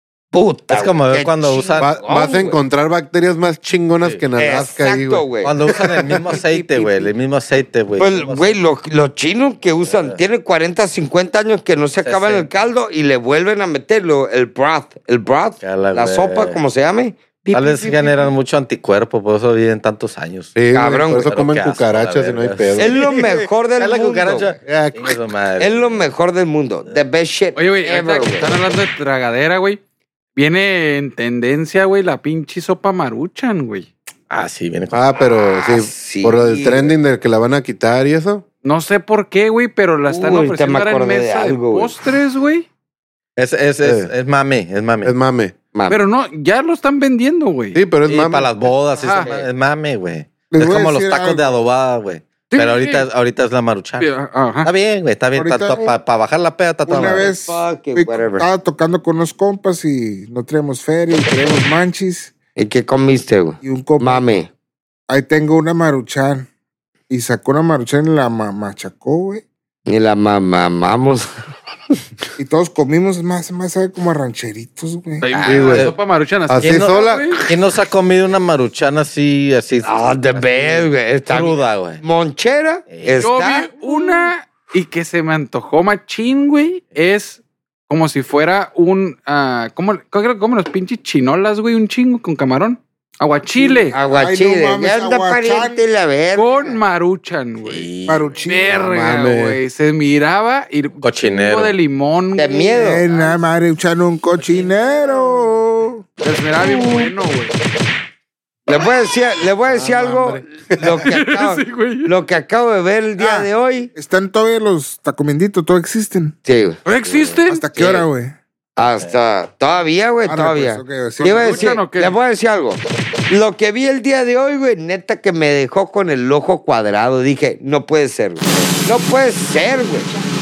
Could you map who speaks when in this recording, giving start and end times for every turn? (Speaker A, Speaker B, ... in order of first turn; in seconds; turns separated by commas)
Speaker A: 0.3-2.6, Speaker B: 0.7-2.0, Speaker C: 1.8-5.2, Speaker A: 4.4-7.1, Speaker B: 5.4-8.6, Speaker A: 8.0-18.2, Speaker B: 9.8-10.2, Speaker B: 12.0-12.5, Speaker B: 15.6-16.6, Speaker B: 17.5-20.6, Speaker C: 20.6-23.0, Speaker A: 20.7-21.3, Speaker B: 21.1-26.0, Speaker A: 22.8-24.6, Speaker C: 24.6-25.1, Speaker A: 25.6-28.6, Speaker D: 27.5-29.8, Speaker D: 30.4-33.9, Speaker B: 34.3-35.0, Speaker C: 34.9-38.4, Speaker A: 35.3-36.9, Speaker D: 38.6-42.6, Speaker A: 40.1-42.0, Speaker B: 43.4-45.1, Speaker C: 43.8-44.1, Speaker C: 45.0-45.5, Speaker A: 45.7-46.0, Speaker D: 45.9-47.8, Speaker C: 47.7-48.5, Speaker B: 48.0-54.1, Speaker A: 49.0-49.5, Speaker D: 49.0-49.3, Speaker E: 50.5-51.6, Speaker D: 52.5-53.0, Speaker D: 54.0-54.7, Speaker B: 54.6-57.3, Speaker E: 55.4-55.9, Speaker E: 56.9-62.3, Speaker A: 57.1-58.5, Speaker A: 62.5-64.5, Speaker E: 63.6-64.3, Speaker E: 65.1-66.5, Speaker E: 67.1-69.4, Speaker A: 69.9-71.3, Speaker E: 72.4-75.2, Speaker D: 75.2-77.5, Speaker B: 75.3-75.9, Speaker C: 75.5-75.9, Speaker C: 76.5-77.4, Speaker B: 76.6-82.0, Speaker A: 79.8-84.1, Speaker B: 82.9-83.2, Speaker D: 83.2-94.0, Speaker A: 93.9-96.8, Speaker E: 94.1-95.8, Speaker D: 96.3-97.9, Speaker B: 97.6-98.4, Speaker E: 98.0-98.9, Speaker D: 98.5-103.3, Speaker C: 98.7-99.6, Speaker B: 101.0-101.8, Speaker A: 102.3-103.0, Speaker E: 102.8-106.0, Speaker D: 106.2-107.5, Speaker A: 106.6-107.1, Speaker A: 108.7-113.9, Speaker C: 109.7-111.0, Speaker D: 111.0-112.1, Speaker E: 113.2-116.3, Speaker A: 116.5-116.8, Speaker D: 116.8-117.6, Speaker B: 117.0-117.4, Speaker E: 117.5-118.3, Speaker A: 117.7-118.0, Speaker A: 118.8-130.1, Speaker B: 118.8-119.1, Speaker E: 120.3-121.7, Speaker D: 121.2-122.2